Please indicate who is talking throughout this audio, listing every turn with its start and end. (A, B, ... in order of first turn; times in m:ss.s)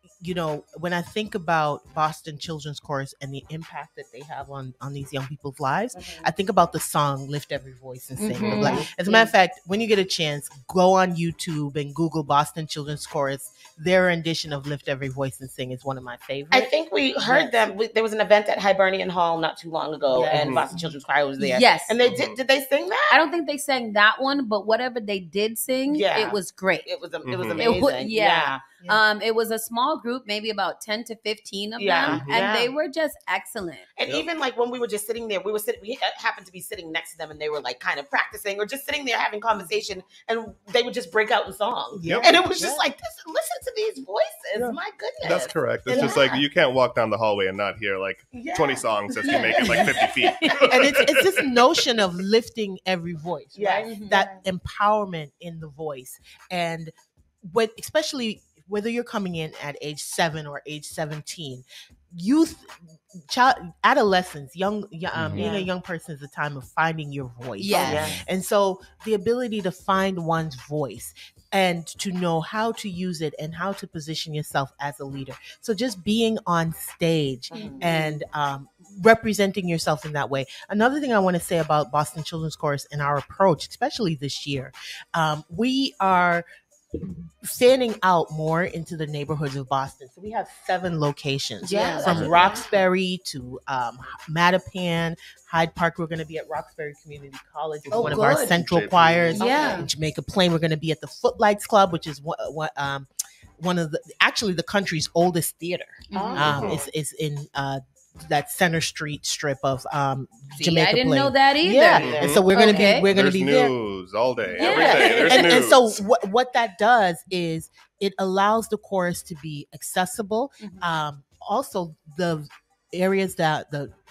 0:00.2-0:16.7 A
0:05.9-0:06.3 B
0:08.2-0:09.3 C
0:08.4-0:08.8 D
0:08.6-0:08.8 B
0:16.5-0:23.2 B
0:17.2-0:17.6 A
0:20.1-0:20.9 A
0:20.3-0:20.7 D
0:21.4-0:22.0 C
0:22.0-0:22.4 D
0:23.1-0:26.9 C
0:25.9-0:28.7 B
0:27.2-0:27.7 D
0:27.6-0:33.9 C
0:31.8-0:32.7 B
0:32.0-0:32.5 D
0:34.0-0:46.4 B
0:41.9-0:42.8 A
0:42.0-0:42.3 D
0:45.2-0:51.2 D
0:48.3-0:50.1 B
0:50.7-0:56.9 A
0:53.5-0:54.3 B
0:53.8-0:54.3 C
0:57.5-1:26.4 A
1:05.1-1:05.5 D
1:05.3-1:05.7 B
1:07.6-1:08.1 C
1:07.7-1:08.2 B
1:17.5-1:18.2 B
1:17.5-1:17.8 C
1:27.4-1:53.7 A
1:31.6-1:32.3 C
1:31.6-1:32.8 B
1:32.0-1:32.4 D
1:37.8-1:39.6 D
1:37.9-1:38.6 B
1:39.3-1:39.9 B
1:39.4-1:39.9 C
1:46.1-1:46.5 C
1:46.1-1:46.9 B
1:46.4-1:46.8 D
1:50.5-1:53.1 C
1:51.8-1:52.3 B
1:52.0-1:52.4 D
1:53.1-1:56.0 D
1:54.4-1:55.6 C
1:54.6-1:55.3 B
1:54.7-2:03.9 A
2:00.6-2:00.9 C